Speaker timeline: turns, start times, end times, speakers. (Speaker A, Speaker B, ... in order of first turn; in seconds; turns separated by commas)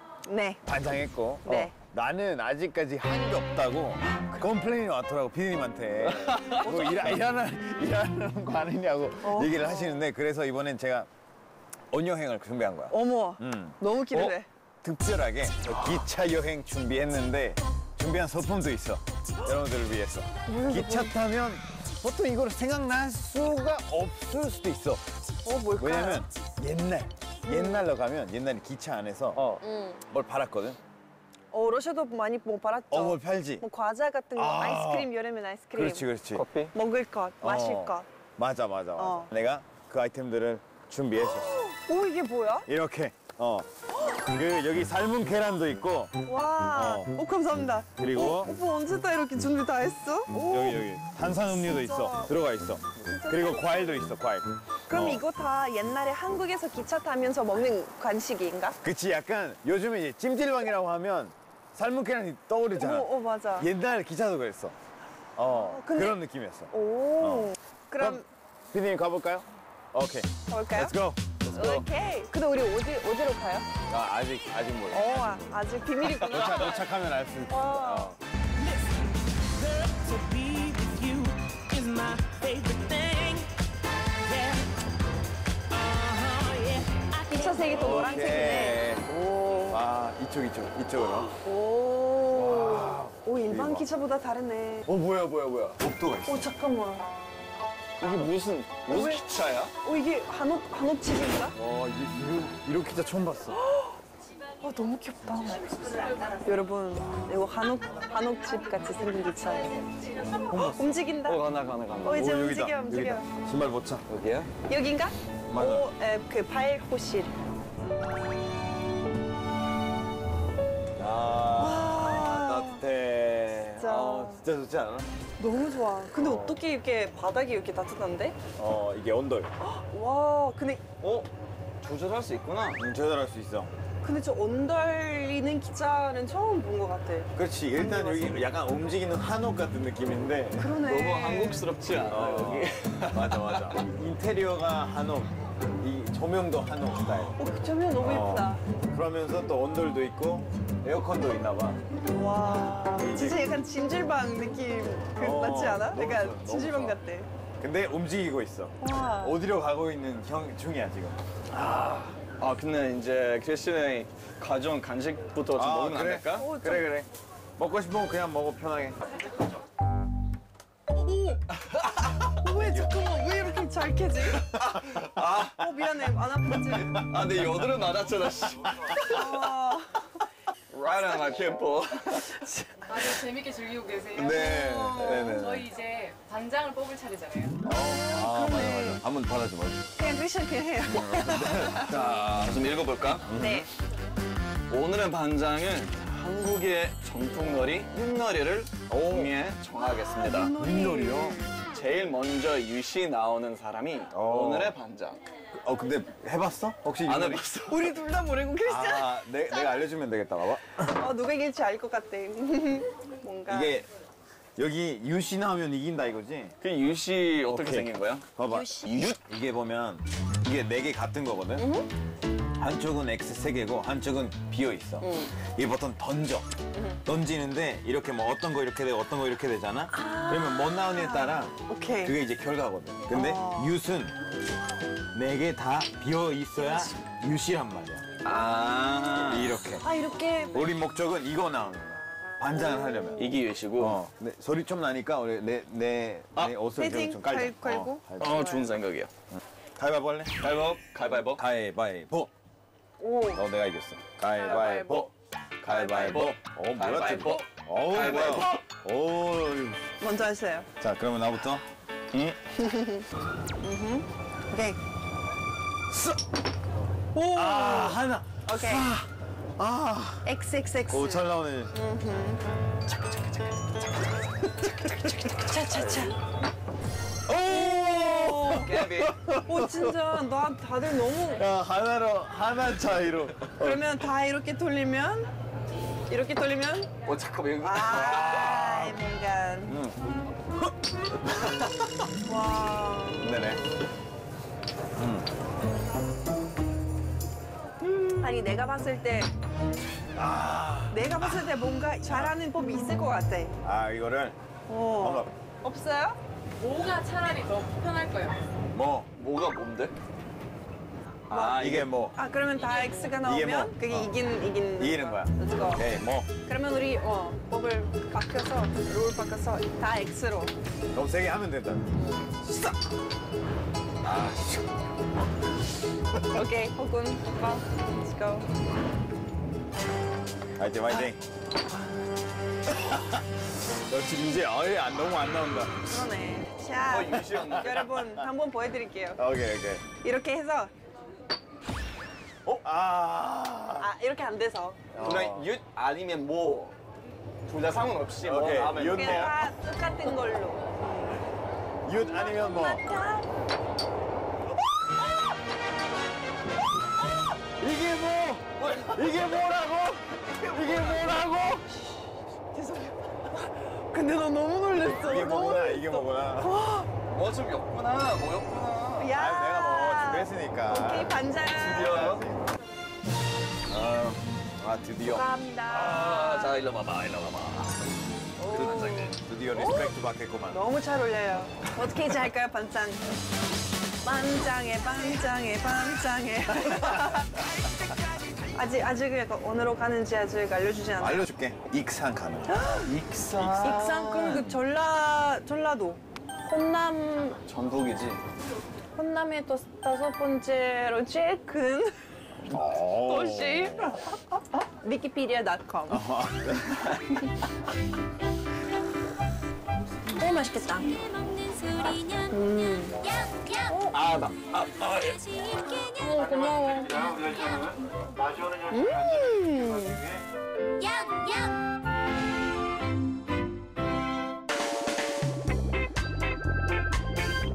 Speaker A: 0.2-0.6, Speaker B: 0.7-11.1, Speaker A: 1.4-1.7, Speaker C: 6.1-7.1, Speaker A: 9.2-10.0, Speaker B: 11.9-25.0, Speaker A: 12.9-14.5, Speaker C: 15.7-16.0, Speaker A: 20.5-21.1, Speaker A: 25.4-26.3, Speaker B: 25.8-29.5, Speaker A: 27.4-27.9, Speaker C: 29.4-29.6, Speaker A: 29.6-30.0, Speaker B: 30.1-30.8, Speaker A: 31.5-36.1, Speaker B: 32.9-33.6, Speaker B: 34.4-35.1, Speaker B: 35.7-36.5, Speaker C: 36.3-36.7, Speaker A: 36.7-38.1, Speaker B: 37.4-41.6, Speaker A: 39.0-39.3, Speaker A: 41.2-42.7, Speaker B: 42.7-46.2, Speaker A: 46.2-50.9, Speaker B: 46.7-47.2, Speaker B: 48.0-48.5, Speaker B: 50.3-55.2, Speaker A: 51.4-52.3, Speaker A: 53.0-54.0, Speaker A: 54.9-58.8, Speaker B: 58.8-64.8, Speaker A: 62.8-63.7, Speaker B: 65.4-71.9, Speaker A: 65.5-66.2, Speaker A: 66.7-68.3, Speaker A: 70.5-71.0, Speaker A: 71.5-73.7, Speaker B: 73.9-75.6, Speaker A: 74.9-76.8, Speaker C: 76.2-76.7, Speaker B: 76.2-78.2, Speaker A: 77.5-78.2, Speaker D: 79.8-83.5, Speaker D: 84.3-84.6, Speaker D: 85.8-87.0, Speaker A: 87.1-89.8, Speaker B: 87.6-89.1, Speaker B: 89.7-91.4, Speaker A: 91.0-94.9, Speaker B: 92.3-93.9, Speaker C: 94.9-95.8, Speaker B: 95.8-96.5, Speaker A: 96.3-97.1, Speaker C: 98.0-99.7, Speaker A: 98.9-99.2, Speaker A: 99.8-101.6, Speaker B: 101.6-103.6, Speaker A: 103.5-104.0, Speaker A: 104.6-109.8, Speaker B: 110.5-111.0, Speaker A: 110.5-111.4, Speaker C: 111.2-112.3, Speaker A: 112.0-113.3, Speaker B: 112.1-114.1, Speaker C: 114.1-114.5, Speaker A: 114.7-117.3, Speaker B: 115.5-115.9, Speaker B: 121.0-125.1, Speaker A: 121.5-122.8, Speaker A: 123.8-124.4, Speaker A: 125.4-128.4, Speaker B: 126.1-126.6, Speaker B: 128.6-129.5, Speaker A: 129.6-130.8, Speaker C: 131.0-131.3, Speaker C: 131.8-132.8, Speaker B: 132.8-133.7, Speaker A: 134.0-138.4, Speaker B: 137.3-140.8, Speaker A: 140.6-141.7, Speaker C: 140.8-143.8, Speaker B: 142.1-147.4, Speaker A: 147.3-148.6, Speaker B: 148.0-151.8, Speaker A: 152.1-157.3, Speaker B: 153.0-153.5, Speaker B: 155.1-157.0, Speaker B: 157.6-161.2, Speaker A: 158.8-159.4, Speaker C: 161.9-166.5, Speaker B: 165.6-169.1, Speaker A: 166.4-166.9, Speaker A: 170.9-171.4, Speaker A: 172.3-174.5, Speaker B: 172.5-172.9, Speaker C: 174.5-175.7, Speaker A: 175.0-177.1, Speaker C: 176.6-179.6, Speaker A: 178.9-180.2, Speaker C: 180.7-182.4, Speaker A: 182.1-183.1, Speaker D: 182.9-187.6, Speaker B: 184.2-185.7, Speaker C: 184.2-185.4, Speaker B: 187.7-189.9, Speaker A: 187.7-189.0, Speaker A: 190.0-191.9, Speaker B: 190.9-192.5, Speaker C: 191.7-193.3, Speaker B: 193.3-193.7, Speaker A: 193.4-193.7, Speaker C: 194.7-200.6, Speaker B: 198.9-199.3, Speaker A: 199.8-201.4, Speaker B: 200.6-201.4, Speaker C: 201.7-205.2, Speaker B: 204.1-204.8, Speaker B: 205.6-207.4, Speaker C: 207.1-207.9, Speaker A: 207.7-209.8, Speaker B: 208.6-210.8, Speaker A: 210.8-213.8, Speaker B: 213.5-213.9, Speaker B: 214.6-216.6, Speaker C: 216.6-218.3, Speaker B: 217.4-221.7, Speaker C: 218.8-219.2, Speaker A: 221.6-221.9, Speaker B: 222.6-226.5, Speaker A: 225.0-225.3, Speaker A: 226.7-227.0, Speaker B: 227.0-234.2, Speaker A: 229.9-232.2, Speaker A: 233.1-233.8, Speaker B: 235.1-238.1, Speaker A: 236.6-237.0, Speaker C: 238.2-239.6, Speaker B: 239.3-239.8, Speaker A: 239.8-240.7, Speaker B: 240.5-248.4, Speaker A: 242.6-243.3, Speaker C: 243.2-244.0, Speaker A: 246.8-248.7, Speaker C: 248.2-249.1, Speaker B: 249.8-250.5, Speaker C: 250.4-251.4, Speaker B: 251.3-252.3, Speaker A: 253.0-253.4, Speaker B: 253.3-255.1, Speaker C: 254.4-258.6, Speaker B: 255.6-259.9, Speaker A: 260.0-260.7, Speaker B: 260.8-261.6, Speaker C: 262.1-262.4, Speaker A: 262.5-263.1, Speaker A: 263.6-264.8, Speaker B: 265.9-266.2, Speaker A: 267.1-268.9, Speaker B: 267.3-270.3, Speaker A: 270.2-272.4, Speaker B: 270.9-271.7, Speaker B: 272.9-273.3, Speaker B: 274.5-276.1, Speaker A: 275.2-276.1, Speaker B: 277.3-280.2, Speaker A: 277.4-278.7, Speaker C: 278.6-279.1, Speaker A: 279.4-281.4, Speaker B: 281.1-283.8, Speaker A: 283.6-285.3, Speaker A: 286.1-286.9, Speaker C: 287.1-288.3, Speaker A: 287.6-289.8, Speaker B: 287.9-289.0, Speaker B: 289.7-290.1, Speaker B: 291.2-292.0, Speaker A: 292.2-293.3, Speaker B: 293.2-293.6, Speaker B: 295.0-295.3, Speaker A: 298.2-299.3, Speaker B: 300.1-302.4, Speaker A: 300.9-303.6, Speaker B: 303.6-304.4, Speaker A: 304.7-306.2, Speaker B: 305.0-305.3, Speaker D: 306.6-308.4, Speaker B: 308.7-309.1, Speaker C: 309.2-309.9, Speaker C: 311.3-311.9, Speaker A: 311.3-311.6, Speaker B: 311.4-312.2, Speaker A: 312.1-320.5, Speaker B: 313.1-314.1, Speaker B: 314.8-316.3, Speaker B: 320.9-322.6, Speaker B: 324.0-324.7, Speaker A: 326.3-328.5, Speaker B: 330.6-331.2, Speaker B: 332.7-336.1, Speaker A: 335.9-339.2, Speaker C: 336.9-337.8, Speaker B: 337.6-338.3, Speaker B: 339.2-339.8, Speaker A: 339.9-340.7, Speaker B: 342.5-343.9, Speaker A: 343.8-344.9, Speaker B: 344.9-345.5, Speaker C: 345.0-346.8, Speaker C: 347.5-349.4, Speaker B: 348.2-349.5, Speaker A: 348.8-351.2, Speaker B: 351.9-352.9, Speaker A: 352.0-353.3, Speaker B: 357.6-361.8, Speaker C: 358.6-359.0, Speaker A: 362.5-366.9, Speaker B: 364.9-366.5, Speaker C: 367.1-369.1, Speaker A: 369.0-372.0, Speaker B: 369.1-372.5, Speaker C: 371.6-372.2, Speaker C: 373.8-374.2, Speaker B: 374.6-375.3, Speaker A: 375.0-376.6, Speaker C: 375.7-377.8, Speaker A: 378.4-380.0, Speaker C: 378.4-379.1, Speaker B: 378.5-380.6, Speaker A: 380.5-383.0, Speaker A: 384.0-387.4, Speaker A: 388.5-391.3, Speaker B: 391.0-392.7, Speaker A: 392.5-392.9, Speaker C: 392.8-394.6, Speaker B: 393.4-394.4, Speaker A: 393.5-397.4, Speaker C: 397.4-398.2, Speaker A: 399.0-401.9, Speaker B: 402.5-404.0, Speaker A: 403.1-406.1, Speaker B: 405.9-407.3, Speaker A: 410.1-411.0, Speaker A: 412.1-414.0, Speaker C: 413.9-415.4, Speaker A: 415.8-417.3, Speaker A: 418.7-420.1, Speaker D: 420.8-421.5